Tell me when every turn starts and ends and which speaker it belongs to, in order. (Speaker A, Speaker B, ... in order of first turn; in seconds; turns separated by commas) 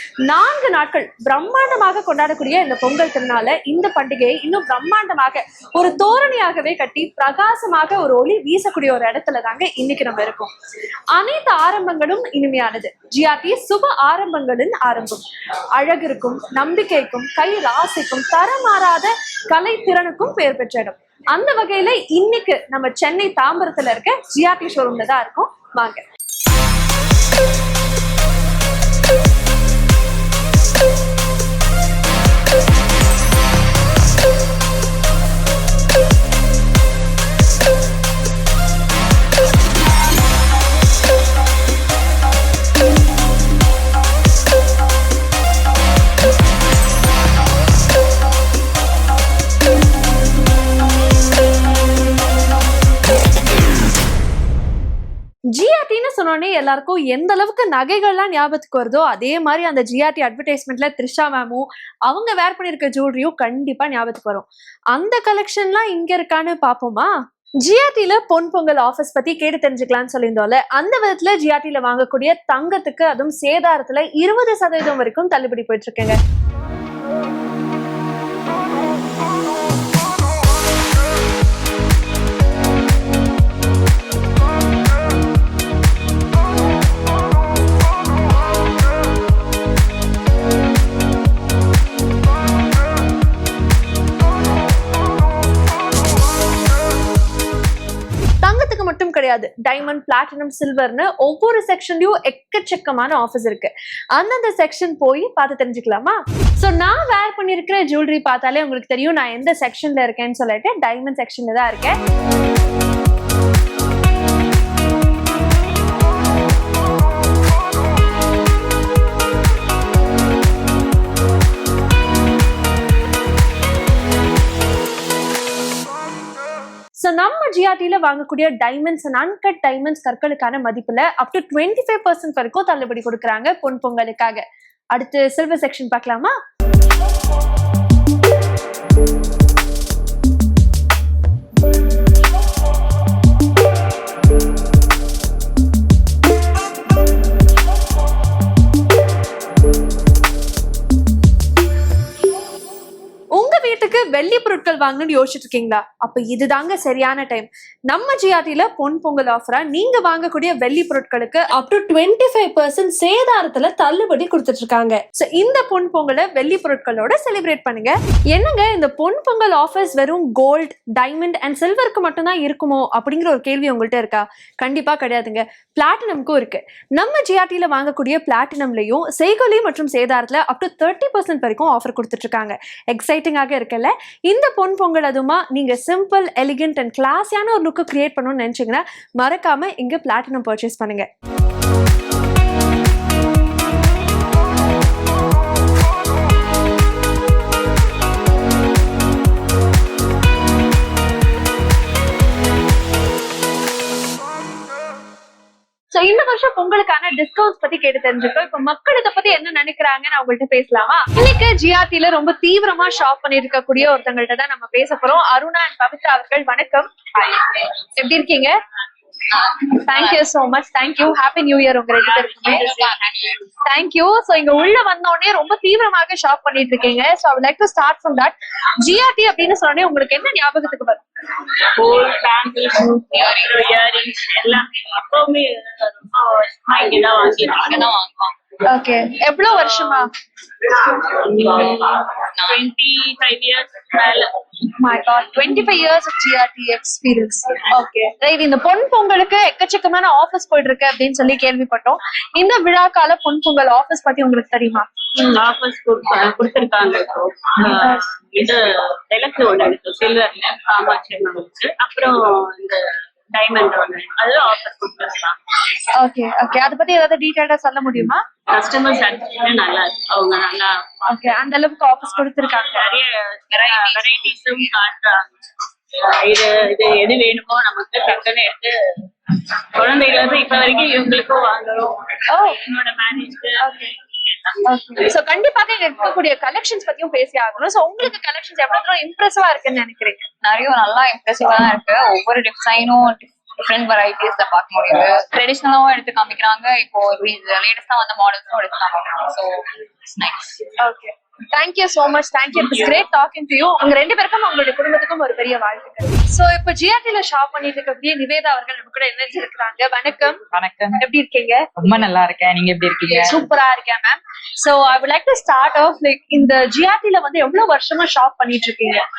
Speaker A: 0.3-10.5, Speaker A: 11.1-15.2, Speaker A: 15.8-26.0, Speaker A: 55.5-76.2, Speaker A: 98.4-112.0, Speaker A: 127.0-136.3, Speaker A: 153.3-191.1, Speaker A: 205.9-218.6, Speaker A: 219.4-222.8, Speaker A: 223.7-231.0, Speaker B: 231.8-237.8, Speaker C: 237.7-238.3, Speaker A: 238.7-240.1, Speaker B: 242.5-244.3, Speaker A: 244.8-254.9, Speaker B: 255.2-265.4, Speaker A: 265.9-268.2, Speaker B: 268.5-270.8, Speaker A: 271.1-272.8, Speaker B: 272.8-275.4, Speaker B: 276.0-279.0, Speaker B: 279.8-282.0, Speaker A: 282.3-282.6, Speaker B: 282.6-283.6, Speaker A: 283.6-283.9, Speaker A: 284.6-290.3, Speaker C: 290.4-300.6, Speaker A: 300.8-310.4, Speaker D: 310.5-311.0, Speaker A: 311.0-311.6, Speaker D: 311.8-313.4, Speaker A: 313.2-319.0